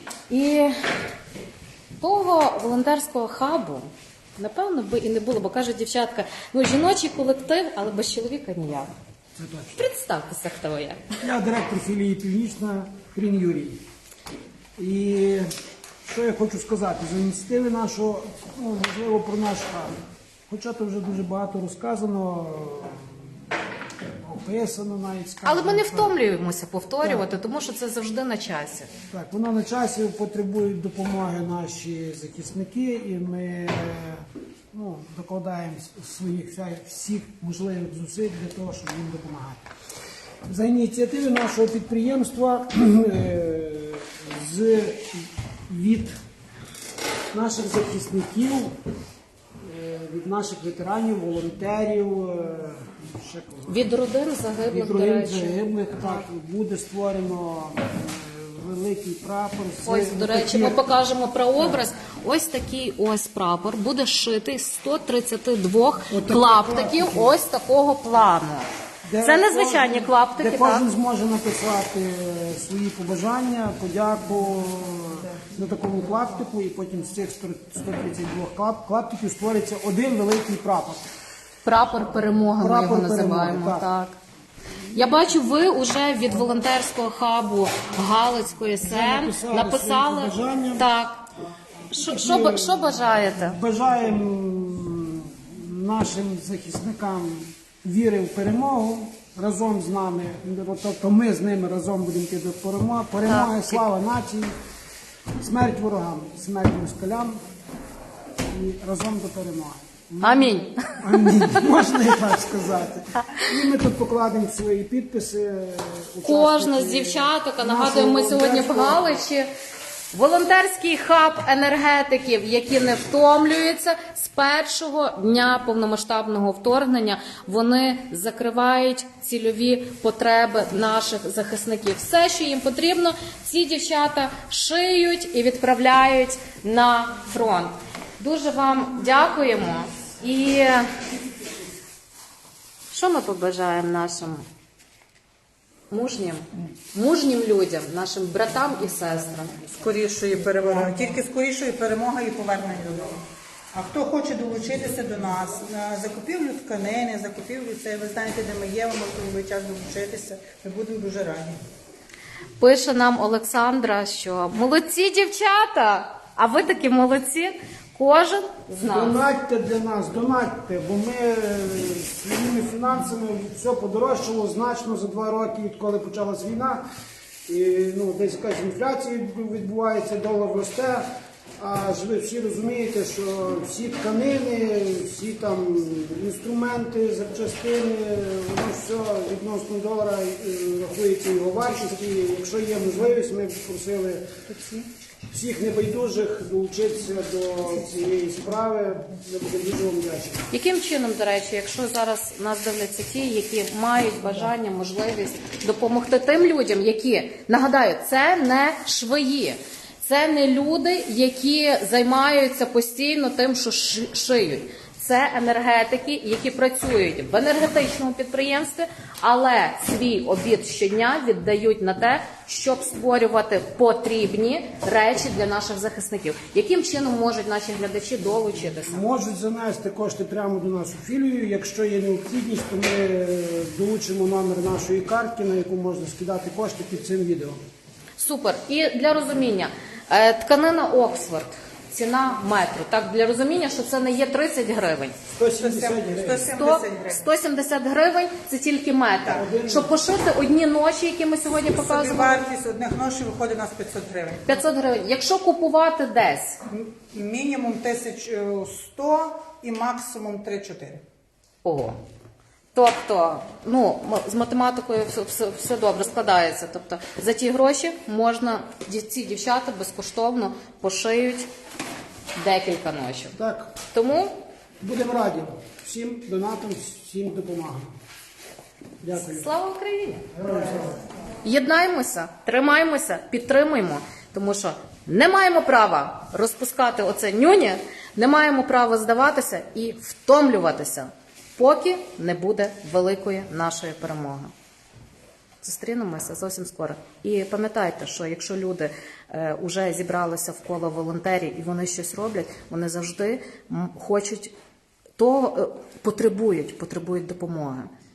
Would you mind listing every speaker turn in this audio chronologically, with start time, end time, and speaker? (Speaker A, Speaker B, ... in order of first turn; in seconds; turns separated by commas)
Speaker A: 0.3-0.7, Speaker A: 2.0-8.9, Speaker B: 9.4-9.8, Speaker A: 9.8-11.0, Speaker B: 11.2-13.8, Speaker B: 14.8-15.5, Speaker B: 16.0-19.9, Speaker B: 20.5-23.2, Speaker B: 24.2-26.2, Speaker A: 25.4-28.9, Speaker B: 29.1-39.7, Speaker B: 40.5-46.2, Speaker B: 47.3-48.8, Speaker B: 49.6-53.9, Speaker A: 53.7-56.2, Speaker B: 54.6-60.8, Speaker A: 59.8-68.7, Speaker B: 66.1-67.3, Speaker B: 69.0-81.1, Speaker A: 69.2-70.9, Speaker A: 81.7-84.2, Speaker B: 82.6-83.9, Speaker A: 84.9-91.2, Speaker B: 88.8-90.9, Speaker A: 91.9-93.6, Speaker B: 91.9-104.5, Speaker A: 103.3-103.8, Speaker B: 105.4-107.4, Speaker B: 108.5-119.2, Speaker A: 110.2-111.7, Speaker A: 116.2-119.5, Speaker A: 120.1-140.9, Speaker A: 142.9-144.4, Speaker A: 145.9-149.7, Speaker C: 149.8-161.6, Speaker A: 162.6-169.2, Speaker B: 168.8-176.8, Speaker B: 177.5-194.3, Speaker A: 194.5-194.8, Speaker B: 195.3-200.5, Speaker A: 200.5-229.0, Speaker B: 228.8-237.6, Speaker A: 238.2-245.2, Speaker B: 245.3-246.5, Speaker C: 245.6-247.3, Speaker A: 246.5-252.4, Speaker B: 249.3-249.9, Speaker C: 251.7-254.5, Speaker A: 254.5-256.6, Speaker C: 256.7-261.0, Speaker A: 261.6-262.0, Speaker A: 262.7-271.5, Speaker A: 272.4-273.4, Speaker B: 273.4-273.7, Speaker A: 273.9-274.3, Speaker B: 274.8-277.9, Speaker B: 279.0-279.5, Speaker A: 279.1-280.3, Speaker B: 280.3-281.0, Speaker A: 281.4-294.5, Speaker A: 295.6-304.5, Speaker A: 305.2-307.9